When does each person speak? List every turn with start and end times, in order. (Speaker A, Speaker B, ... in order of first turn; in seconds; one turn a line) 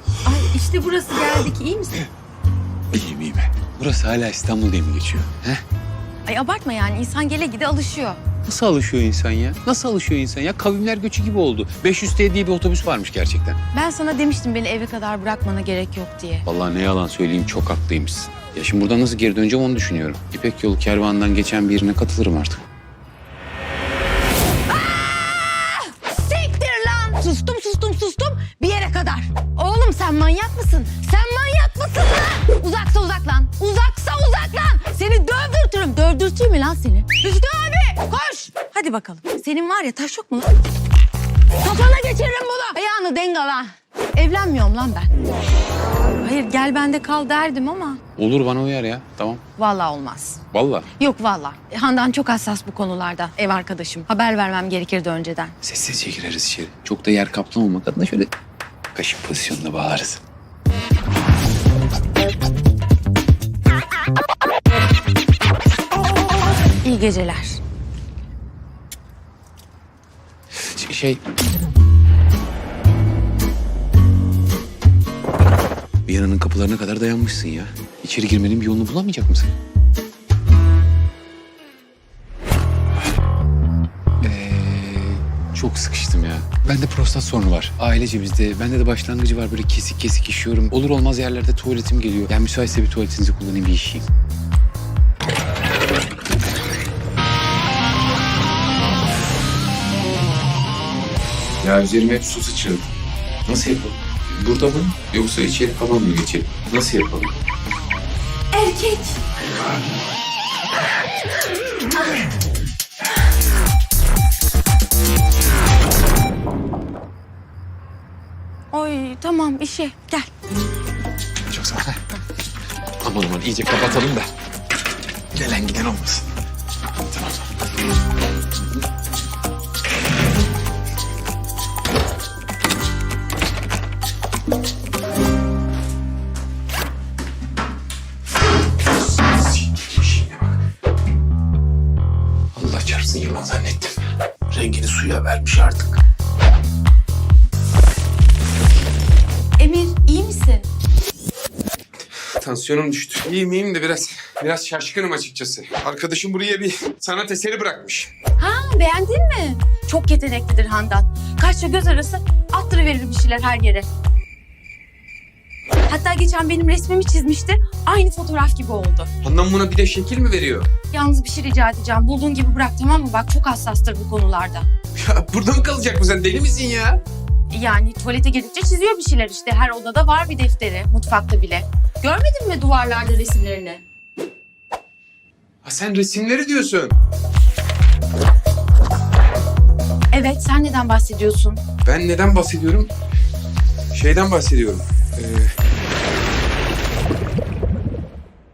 Speaker A: 0.2-2.1
Speaker B: 2.9-5.6
Speaker A: 6.2-8.2
Speaker B: 8.4-13.6
Speaker A: 13.7-16.4
Speaker B: 16.4-22.6
Speaker A: 24.7-40.5
Speaker A: 41.6-45.1
Speaker A: 46.0-48.0
Speaker B: 48.2-49.4
Speaker A: 49.6-50.4
Speaker B: 50.5-50.9
Speaker A: 51.0-55.5
Speaker B: 55.6-58.3
Speaker B: 59.0-60.2
Speaker A: 66.8-67.6
Speaker B: 70.5-71.2
Speaker B: 76.0-79.5
Speaker B: 84.2-94.0
Speaker B: 101.6-102.9
Speaker B: 103.5-107.3
Speaker A: 108.5-109.2
Speaker A: 118.7-120.3
Speaker B: 121.5-122.0
Speaker B: 123.0-124.3
Speaker B: 125.3-126.2
Speaker B: 127.1-127.5
Speaker B: 139.3-140.6
Speaker B: 142.5-144.0
Speaker B: 144.5-146.0
Speaker A: 149.6-150.7
Speaker C: 152.4-158.1
Speaker B: 152.4-156.1
Speaker A: 158.4-163.9
Speaker A: 165.8-169.1
Speaker C: 169.2-170.7
Speaker A: 170.9-174.7
Speaker C: 175.0-177.0
Speaker A: 177.5-183.8
Speaker C: 185.6-186.9
Speaker A: 190.1-191.6
Speaker C: 191.8-192.9
Speaker C: 193.9-194.8
Speaker B: 195.2-195.5